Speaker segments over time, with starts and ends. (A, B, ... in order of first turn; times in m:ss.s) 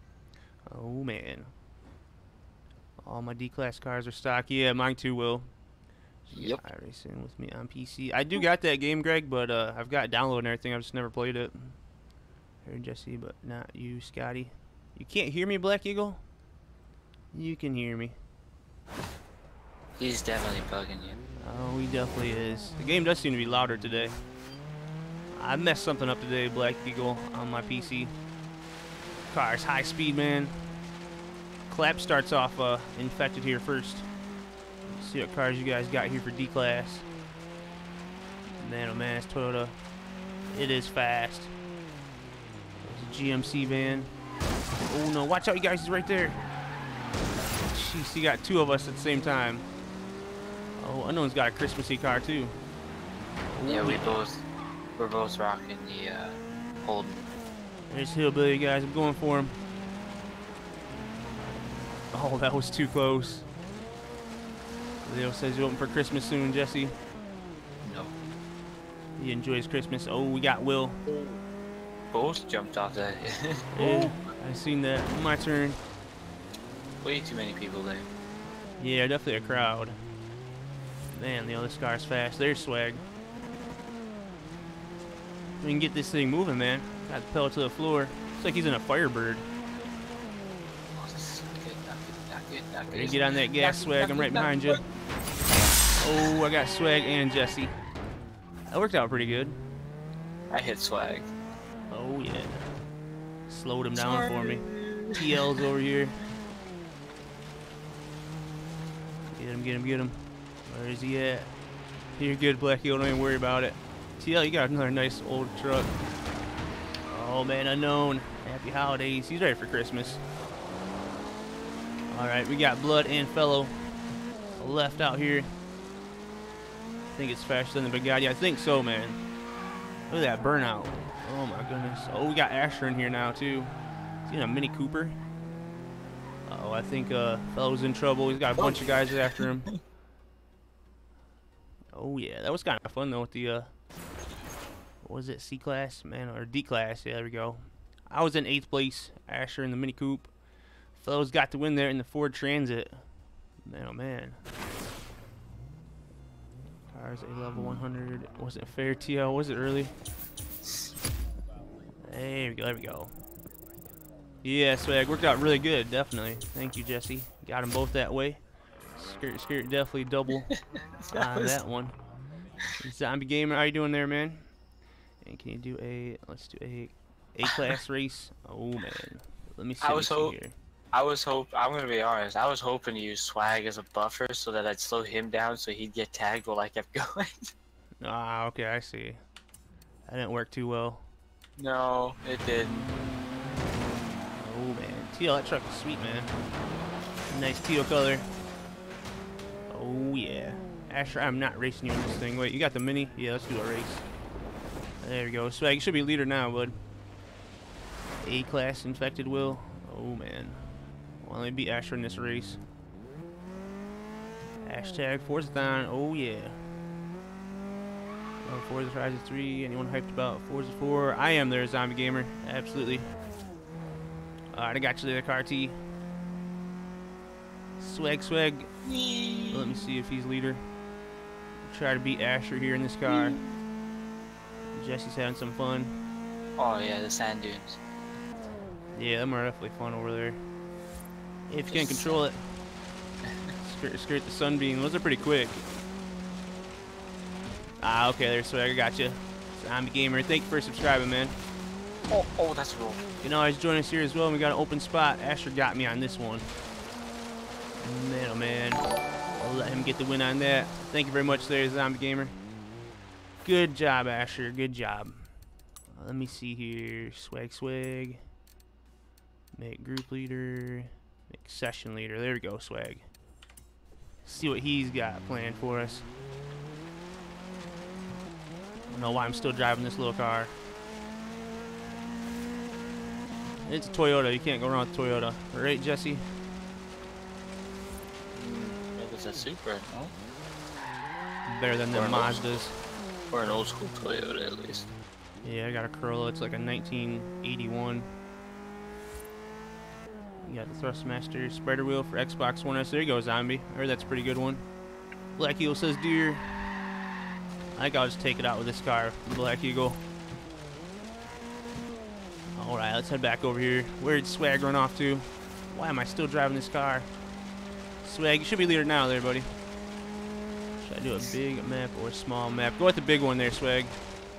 0:00.7-0:01.5 A
0:03.0-0:05.5 A
0:06.3-0:11.8 A
0:06.4-0:06.6 B
0:12.6-0:16.2 A
0:17.3-0:18.2 A
0:20.0-0:21.2 B
0:21.4-0:24.2 A
0:25.3-0:28.1 A
0:29.3-0:30.6 A
0:31.7-0:34.1 A
0:34.9-0:37.1 A
0:38.6-0:39.8 A
0:40.5-0:41.5 A
0:42.8-0:44.1 A
0:44.8-0:46.4 A
0:47.6-0:49.6 A
0:50.8-0:52.6 A
0:53.5-0:54.2 A
0:53.6-0:54.4 B
0:55.0-0:57.2 B
0:57.9-0:59.6 A
1:02.1-1:03.5 A
1:05.0-1:07.0 A
1:07.8-1:08.1 B
1:09.2-1:11.0 A
1:11.1-1:11.4 B
1:12.1-1:14.2 B
1:13.7-1:15.8 A
1:17.0-1:18.1 B
1:18.8-1:20.0 A
1:21.1-1:23.0 A
1:25.6-1:29.4 A
1:31.0-1:34.8 B
1:32.9-1:34.8 A
1:36.0-1:37.7 A
1:38.7-1:39.6 A
1:40.5-1:41.3 B
1:41.9-1:42.7 A
1:43.5-1:46.2 A
1:43.9-1:45.2 B
1:49.3-1:51.5 A
1:52.1-1:56.0 A
1:57.1-2:00.2 A
2:02.1-2:03.8 A
2:04.6-2:05.5 A
2:07.1-2:09.2 A
2:10.1-2:15.2 A
2:16.5-2:19.7 A
2:18.6-2:19.7 B
2:21.9-2:23.7 A
2:25.0-2:30.3 A
2:30.9-2:33.0 A
2:33.6-2:34.4 A
2:36.9-2:40.0 A
2:42.0-2:43.1 A
2:44.4-2:48.4 A
2:48.9-2:50.5 A
2:51.1-2:51.6 B
2:51.1-2:52.0 A
2:52.8-2:54.5 A
2:55.2-3:00.5 A
2:59.8-3:00.4 B
3:00.9-3:07.5 B
3:08.0-3:09.2 A
3:10.1-3:11.1 A
3:11.6-3:12.9 B
3:14.4-3:16.4 A
3:17.3-3:18.3 A
3:19.7-3:24.1 A
3:25.0-3:26.8 A
3:28.2-3:32.6 A
3:34.6-3:36.6 A
3:38.4-3:43.1 A
3:44.5-3:45.8 A
3:47.8-3:48.7 A
3:48.8-3:49.8 B
3:49.5-3:50.6 A
3:51.6-3:53.4 A
3:53.1-3:53.5 B
3:54.7-3:55.9 A
3:56.6-3:57.8 B
3:58.9-4:00.4 A
4:01.5-4:02.5 A
4:01.7-4:02.1 B
4:03.6-4:05.6 A
4:07.8-4:11.4 A
4:12.1-4:13.0 B
4:13.2-4:16.5 A
4:17.8-4:18.8 A
4:19.4-4:22.4 A
4:23.4-4:25.3 A
4:25.9-4:28.2 A
4:29.5-4:33.0 A
4:34.2-4:36.1 A
4:38.9-4:40.5 A
4:43.6-4:46.3 A
4:48.3-4:50.1 B
4:51.4-4:52.8 A
4:51.9-4:52.4 B
4:53.3-4:54.9 B
4:55.4-4:58.1 A
5:00.4-5:04.7 A
5:05.3-5:06.5 A
5:07.7-5:10.0 A
5:12.5-5:17.1 A
5:18.0-5:19.5 A
5:20.8-5:24.0 A